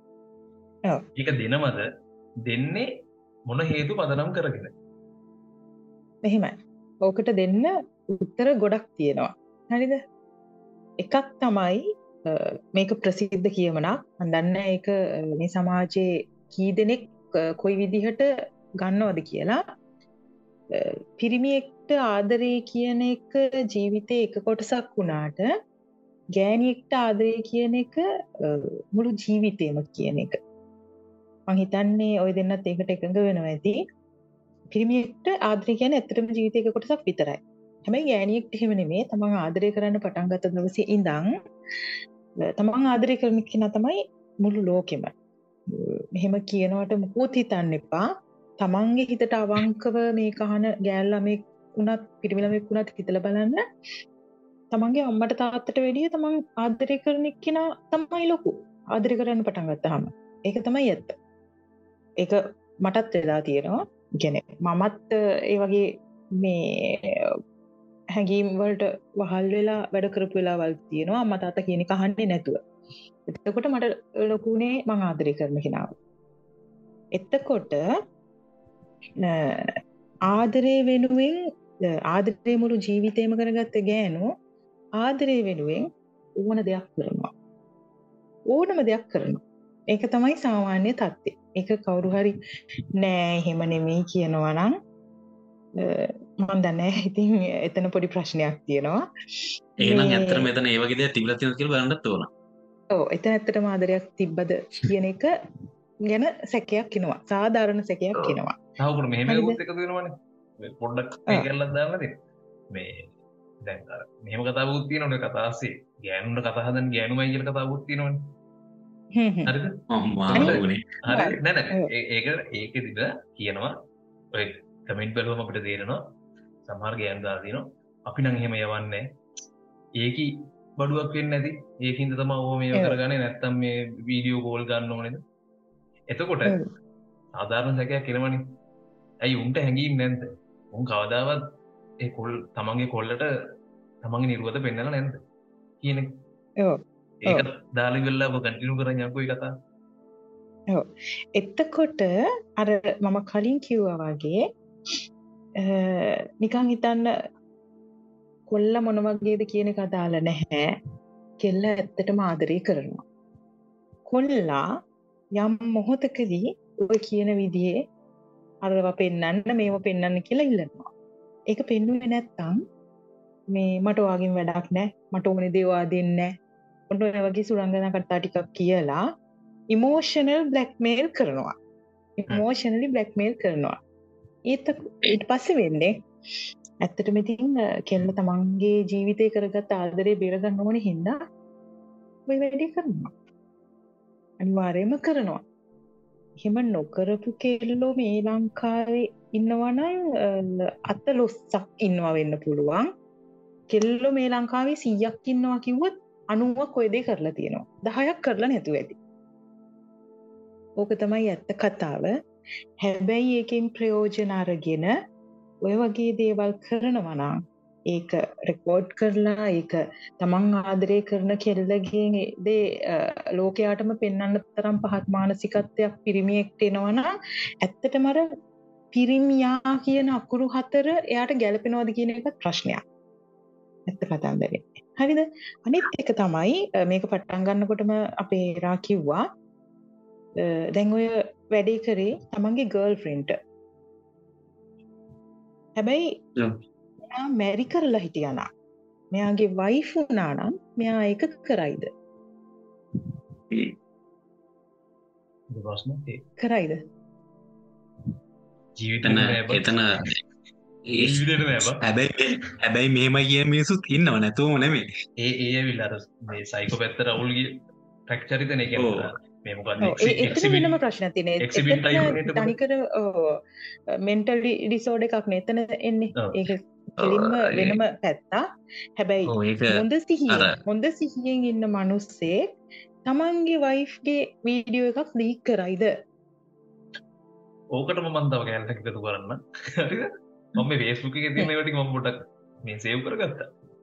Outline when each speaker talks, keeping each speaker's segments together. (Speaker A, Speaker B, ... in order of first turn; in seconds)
Speaker A: 1.2-1.9, 2.5-2.9, 3.5-4.7, 108.8-112.2, 112.7-113.1, 113.6-118.3, 119.5-119.8, 120.3-123.8, 124.3-126.0, 126.6-129.1, 130.0-135.2, 136.1-136.6, 137.3-138.4, 139.2-141.4, 142.0-143.3, 144.0-145.2, 145.8-146.1, 147.2-149.5, 255.5-256.2, 258.8-259.8, 261.0-261.8, 265.2-270.8, 271.4-272.5, 287.7-293.5
Speaker B: 6.2-10.0, 11.0-18.3, 18.8-19.6, 20.7-25.5, 26.4-30.4, 31.5-33.8, 34.7-41.3, 42.6-45.1, 45.7-48.0, 48.6-53.6, 54.7-61.2, 62.2-67.2, 68.2-72.6, 73.3-75.9, 77.2-77.8, 79.2-79.8, 80.3-81.4, 82.1-84.3, 85.0-85.9, 86.4-87.3, 88.5-92.4, 93.0-94.7, 95.8-99.0, 99.8-100.5, 102.9-105.3, 106.1-108.6, 109.3-109.6, 119.1-119.5, 120.4-121.9, 146.6-147.5, 151.4-154.4, 155.6-157.1, 158.5-160.8, 161.4-163.0, 164.1-164.7, 165.4-167.8, 168.6-170.9, 171.5-172.6, 173.5-176.3, 176.9-179.0, 179.7-181.6, 182.2-183.8, 184.5-186.0, 186.8-191.2, 192.3-193.1, 194.4-195.4, 196.4-202.9, 203.7-209.0, 210.8-212.1, 212.8-214.9, 215.6-217.3, 217.9-227.1, 227.6-228.2, 228.9-232.8, 233.9-239.2, 240.4-243.4, 245.8-246.1, 247.1-248.5, 249.1-251.9, 256.4-256.8, 269.8-273.4, 274.0-278.4, 279.0-282.4, 283.1-285.9
Speaker C: 99.8-102.3, 119.9-120.9, 259.0-260.2, 260.9-264.9, 268.8-269.1, 277.0-277.8, 279.3-280.5